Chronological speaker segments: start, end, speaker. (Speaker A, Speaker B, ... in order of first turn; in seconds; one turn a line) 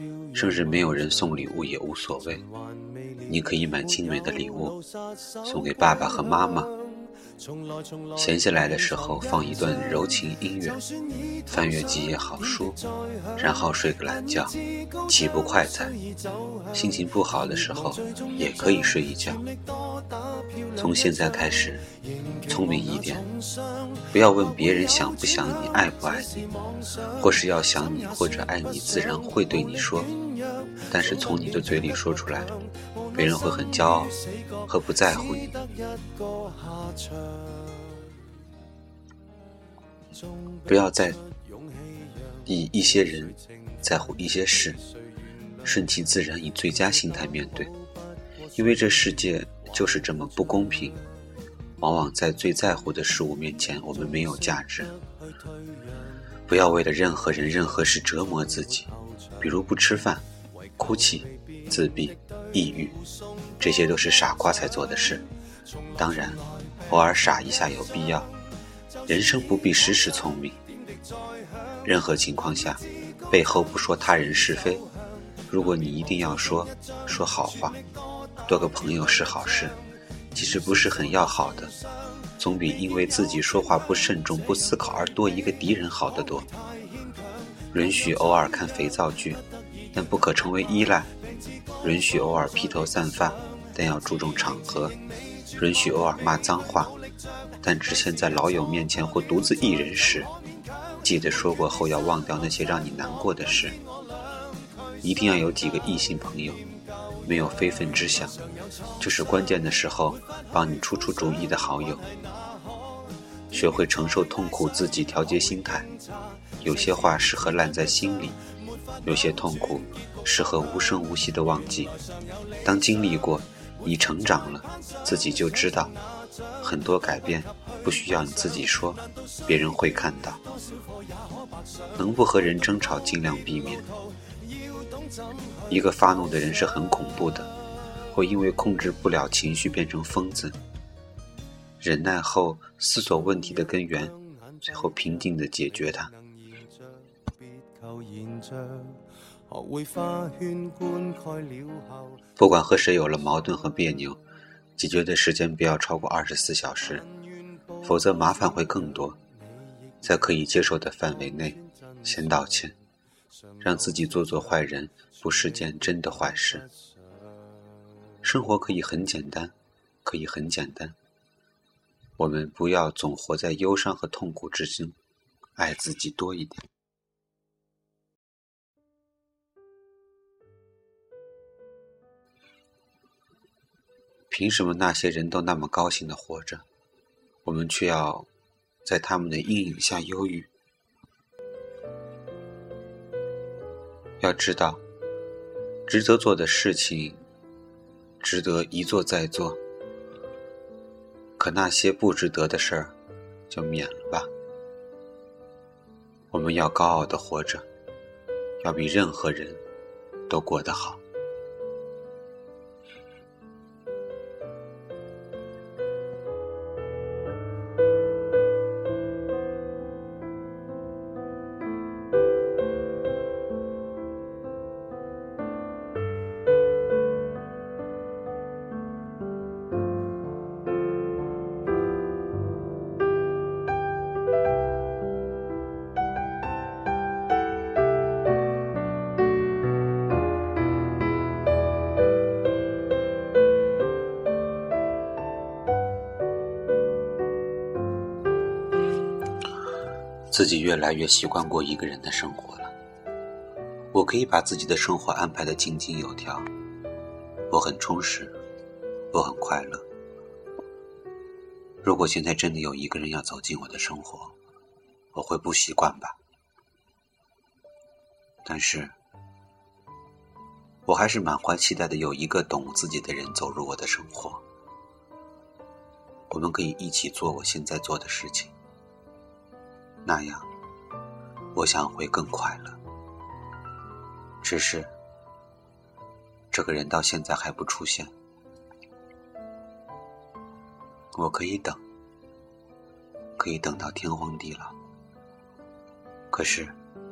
Speaker A: 0.3-2.5
Speaker A: 3.3-4.8
Speaker A: 5.4-6.7
Speaker A: 8.2-10.8
Speaker A: 11.5-12.8
Speaker A: 13.4-15.9
Speaker A: 16.7-19.4
Speaker A: 20.8-21.9
Speaker A: 22.5-23.3
Speaker A: 24.1-26.5
Speaker A: 27.2-30.2
Speaker A: 30.9-32.5
Speaker A: 33.1-35.6
Speaker A: 40.7-41.2
Speaker A: 42.5-44.8
Speaker A: 45.6-47.7
Speaker A: 48.5-51.0
Speaker A: 51.8-55.0
Speaker A: 56.5-58.9
Speaker A: 59.4-60.2
Speaker A: 60.8-63.0
Speaker A: 63.6-65.3
Speaker A: 66.0-68.3
Speaker A: 69.1-70.6
Speaker A: 71.8-74.8
Speaker A: 75.5-77.8
Speaker A: 78.5-79.8
Speaker A: 80.3-81.7
Speaker A: 82.4-86.5
Speaker A: 87.7-89.4
Speaker A: 89.9-91.1
Speaker A: 91.8-95.0
Speaker A: 95.6-97.0
Speaker A: 97.6-100.3
Speaker A: 101.0-103.8
Speaker A: 105.0-106.6
Speaker A: 107.2-108.4
Speaker A: 109.0-112.0
Speaker A: 113.5-115.9
Speaker A: 116.6-118.4
Speaker A: 119.0-121.9
Speaker A: 122.6-125.9
Speaker A: 126.6-130.4
Speaker A: 132.0-133.9
Speaker A: 135.7-137.5
Speaker A: 138.1-140.6
Speaker A: 141.8-146.1
Speaker A: 152.4-154.2
Speaker A: 154.8-157.1
Speaker A: 157.8-159.2
Speaker A: 160.0-162.8
Speaker A: 163.6-166.7
Speaker A: 168.2-169.5
Speaker A: 170.0-171.0
Speaker A: 172.2-175.0
Speaker A: 175.6-176.6
Speaker A: 184.3-186.7
Speaker A: 187.4-188.3
Speaker A: 188.8-190.5
Speaker A: 194.2-194.8
Speaker A: 195.9-197.2
Speaker A: 198.2-199.6
Speaker A: 201.4-202.9
Speaker A: 203.5-204.3
Speaker A: 206.3-207.7
Speaker A: 208.6-209.6
Speaker A: 210.3-211.0
Speaker A: 250.3-252.7
Speaker A: 253.9-256.5
Speaker A: 257.5-258.3
Speaker A: 259.1-259.8
Speaker A: 261.8-264.3
Speaker A: 265.1-266.2
Speaker A: 268.4-268.9
Speaker A: 270.9-274.4
Speaker A: 276.3-278.5
Speaker A: 280.0-280.5
Speaker A: 281.5-282.8
Speaker A: 284.4-284.9
Speaker A: 286.5-288.1
Speaker A: 291.1-291.8
Speaker A: 293.4-294.8
Speaker A: 296.3-296.8